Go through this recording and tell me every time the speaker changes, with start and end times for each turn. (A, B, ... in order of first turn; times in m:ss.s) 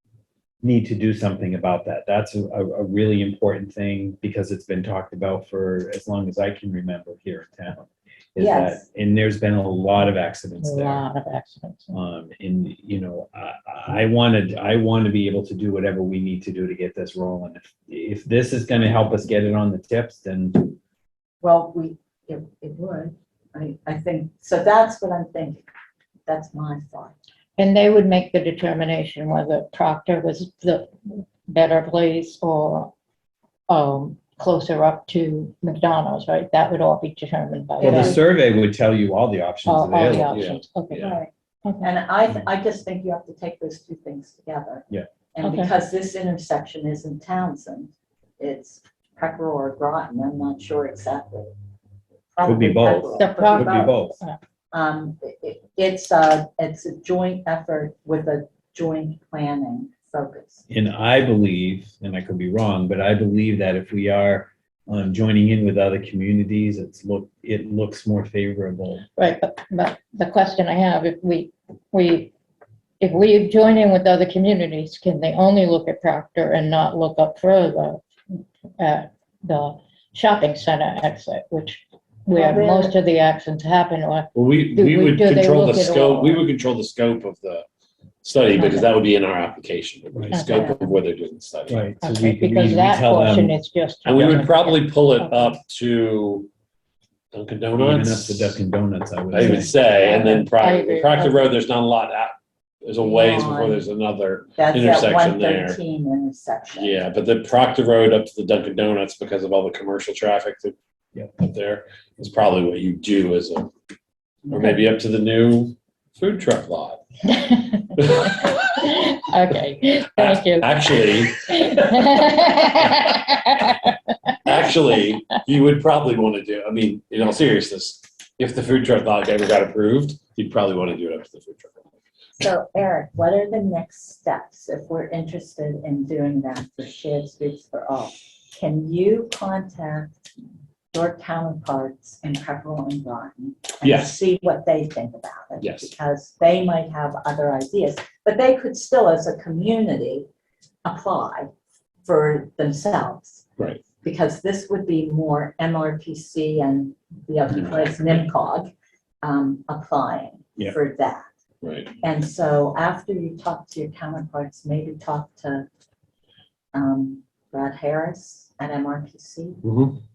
0:00.6-0:11.1 A
0:08.4-0:08.8 B
0:10.6-0:11.9 C
0:11.9-0:20.8 A
0:21.4-0:25.6 B
0:26.3-0:27.2 B
0:27.6-0:32.9 C
0:33.7-0:38.2 C
0:37.8-0:38.2 B
0:37.8-0:40.5 A
0:39.7-0:41.1 C
0:40.3-0:41.2 D
0:41.0-0:51.5 B
0:45.4-0:45.7 C
0:52.3-0:54.1 B
0:52.4-0:54.2 A
0:53.2-0:54.4 C
0:54.7-1:00.6 B
1:00.7-1:09.1 A
1:09.2-1:12.3 C
1:13.0-1:26.4 C
1:22.3-1:23.0 B
1:24.4-1:27.6 D
1:28.2-1:31.9 D
1:28.6-1:28.9 C
1:30.3-1:30.8 C
1:30.5-1:30.8 B
1:31.7-1:33.6 A
1:32.0-1:35.6 C
1:34.0-1:36.5 D
1:37.3-1:38.6 D
1:37.8-1:39.8 A
1:39.3-1:45.8 D
1:39.4-1:41.4 C
1:43.0-1:43.9 B
1:44.6-1:47.0 B
1:46.8-1:53.7 D
1:54.5-1:57.0 D
1:57.3-2:04.4 C
1:58.0-1:58.6 D
2:00.2-2:02.1 D
2:04.4-2:11.8 D
2:12.4-2:20.2 B
2:20.9-2:30.3 B
2:23.8-2:24.2 D
2:25.6-2:25.9 D
2:30.8-2:31.5 B
2:32.0-2:33.4 B
2:34.0-2:38.7 B
2:37.5-2:38.2 D
2:39.2-2:41.3 B
2:41.6-2:41.9 D
2:42.0-2:45.7 B
2:46.7-2:49.6 B
2:49.6-2:50.0 D